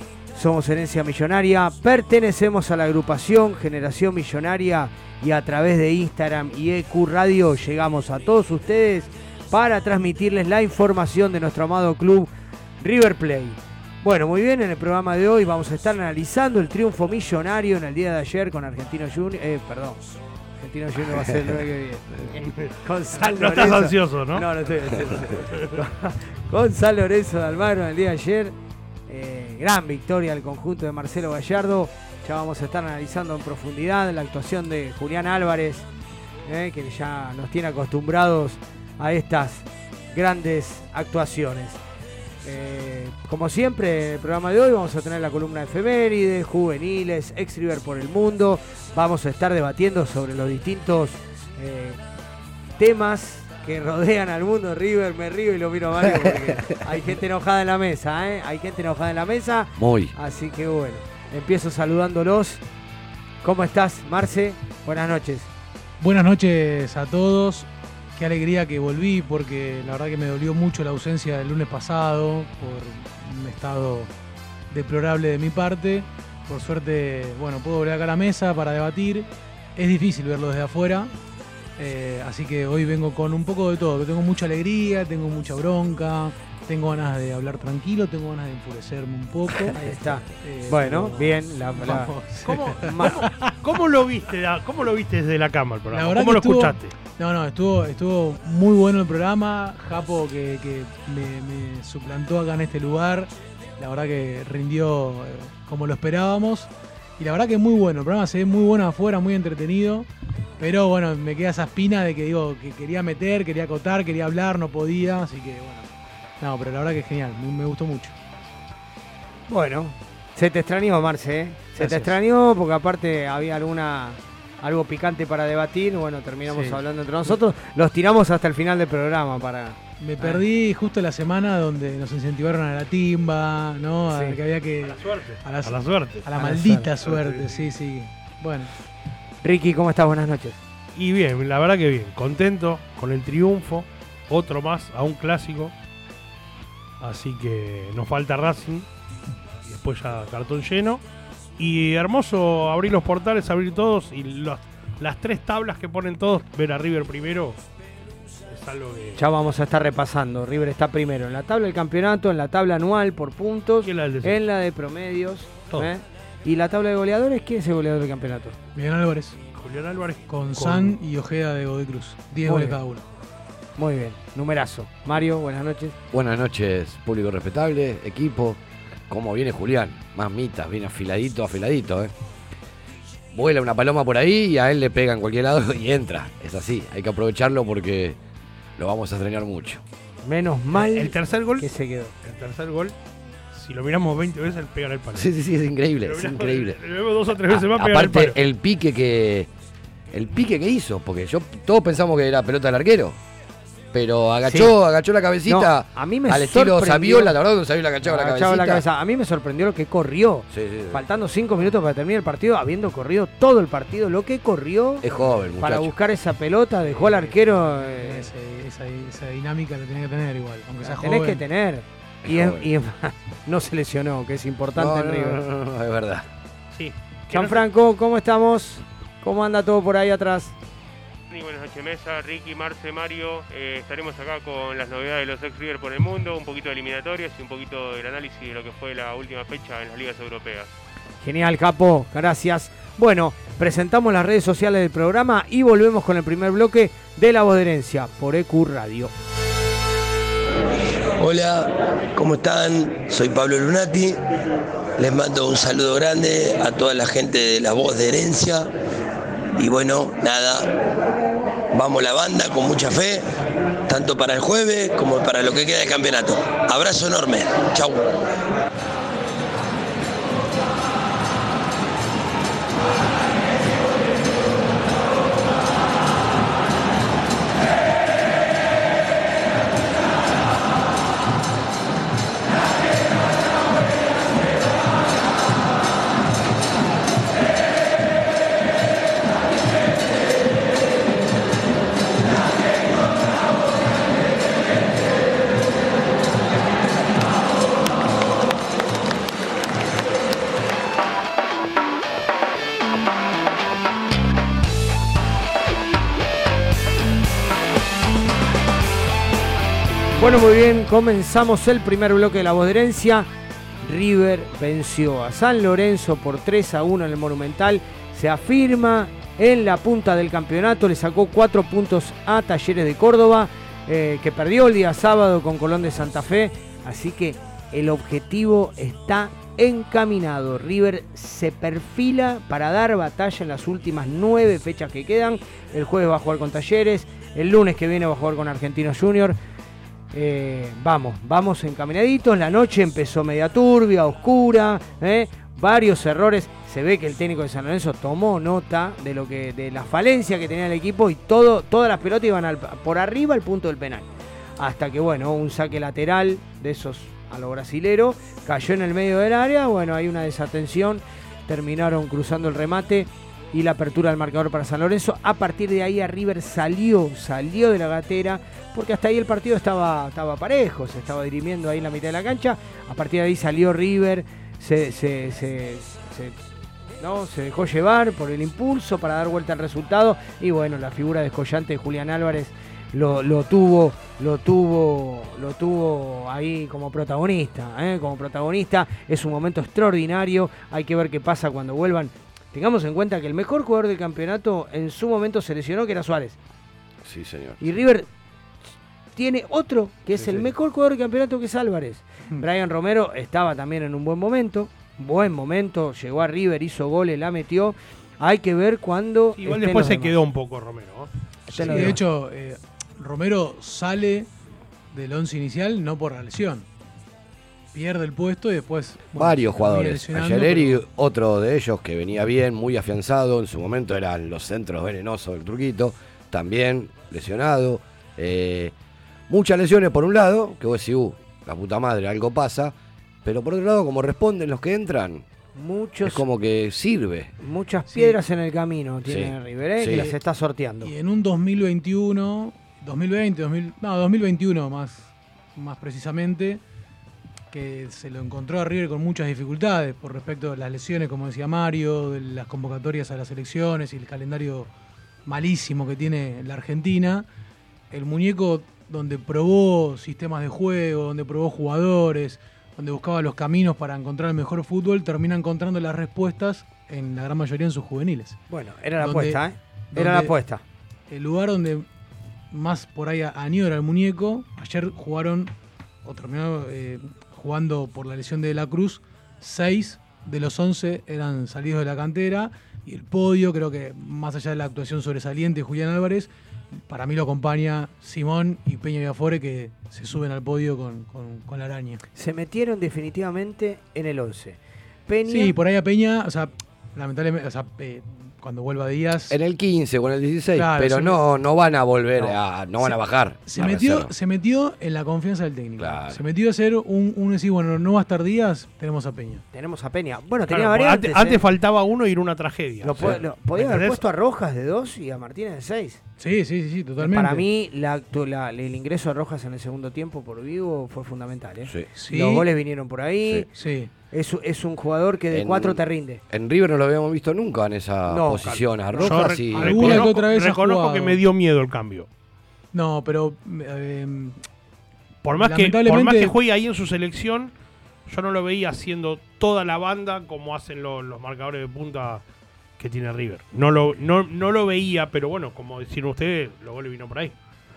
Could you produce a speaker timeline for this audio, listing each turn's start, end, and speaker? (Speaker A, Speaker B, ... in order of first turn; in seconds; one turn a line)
Speaker A: 0.3-20.0
Speaker A: 20.6-28.5
Speaker B: 22.5-24.5
Speaker A: 29.1-35.9
Speaker A: 36.4-41.8
Speaker A: 42.4-52.0
Speaker A: 52.8-62.6
Speaker C: 56.0-56.8
Speaker C: 59.8-60.1
Speaker A: 63.4-65.5
Speaker D: 66.0-74.1
Speaker D: 74.7-81.1
Speaker D: 81.8-93.5
Speaker A: 89.7-93.3
Speaker B: 93.1-96.9
Speaker D: 95.9-110.1
Speaker D: 110.6-115.9
Speaker D: 116.4-118.1
Speaker A: 119.5-130.4
Speaker D: 121.8-122.1
Speaker D: 126.5-127.4
Speaker D: 130.0-138.7
Speaker A: 134.1-134.4
Speaker B: 134.8-136.2
Speaker A: 136.3-136.9
Speaker B: 137.0-137.7
Speaker A: 139.4-140.6
Speaker B: 140.9-145.7
Speaker B: 147.0-148.8
Speaker B: 149.7-151.0
Speaker B: 151.6-157.6
Speaker B: 158.5-159.2
Speaker A: 159.2-168.6
Speaker B: 163.8-164.4
Speaker D: 168.7-169.4
Speaker B: 169.5-171.0
Speaker D: 170.3-173.1
Speaker A: 172.4-172.8
Speaker A: 173.8-175.9
Speaker C: 176.1-178.6
Speaker C: 179.1-182.1
Speaker C: 183.3-188.2
Speaker C: 188.8-189.8
Speaker A: 190.2-192.1
Speaker B: 190.7-191.7
Speaker B: 192.2-192.9
Speaker B: 193.5-195.3
Speaker C: 195.1-196.8
Speaker B: 196.0-198.3
Speaker C: 197.5-199.5
Speaker C: 200.1-203.2
Speaker C: 203.9-208.8
Speaker A: 204.4-204.8
Speaker A: 205.4-207.3
Speaker A: 208.0-218.3
Speaker C: 210.5-211.0
Speaker C: 215.0-215.9
Speaker D: 216.9-221.4
Speaker A: 220.8-225.4
Speaker C: 222.2-222.7
Speaker C: 224.7-226.2
Speaker B: 226.7-227.6
Speaker A: 227.3-230.5
Speaker E: 231.3-240.7
Speaker A: 241.2-249.1
Speaker F: 251.1-254.2
Speaker F: 255.0-258.7
Speaker F: 259.6-260.7
Speaker F: 261.7-263.2
Speaker F: 263.9-268.1
Speaker A: 310.2-313.3
Speaker A: 313.8-339.4
Speaker A: 340.1-354.1
Speaker A: 354.6-376.4
Speaker A: 377.0-396.4
Speaker C: 397.0-397.6
Speaker A: 397.6-398.1
Speaker A: 399.1-410.1
Speaker C: 400.1-400.5
Speaker B: 409.3-412.0
Speaker A: 411.5-412.0
Speaker D: 411.5-414.3
Speaker D: 414.9-416.6
Speaker D: 417.7-420.8
Speaker C: 419.1-428.7
Speaker C: 429.3-435.2
Speaker A: 435.5-436.2
Speaker C: 436.0-437.3
Speaker A: 437.4-440.9
Speaker D: 437.9-438.2
Speaker C: 439.0-440.1
Speaker D: 440.8-446.6
Speaker D: 447.5-454.7
Speaker D: 455.2-457.2
Speaker D: 457.9-468.4
Speaker A: 468.5-470.6
Speaker D: 469.0-469.4
Speaker D: 469.9-470.3
Speaker D: 471.1-471.9
Speaker D: 472.5-475.5
Speaker D: 476.0-486.3
Speaker D: 486.9-492.0
Speaker A: 492.1-495.5
Speaker D: 495.3-499.4
Speaker C: 499.3-504.1
Speaker D: 500.6-501.2
Speaker D: 502.8-509.4
Speaker C: 505.8-506.2
Speaker A: 509.5-511.4
Speaker B: 510.5-514.0
Speaker A: 512.8-516.0
Speaker D: 516.2-517.5
Speaker A: 517.0-523.5
Speaker D: 522.0-522.5
Speaker D: 523.5-523.9
Speaker A: 524.1-526.2
Speaker C: 525.3-530.1
Speaker A: 528.1-529.1
Speaker B: 528.5-532.1
Speaker D: 529.5-531.2
Speaker D: 532.7-534.4
Speaker B: 535.2-537.5
Speaker D: 535.4-536.3
Speaker B: 538.1-542.2
Speaker B: 542.8-547.3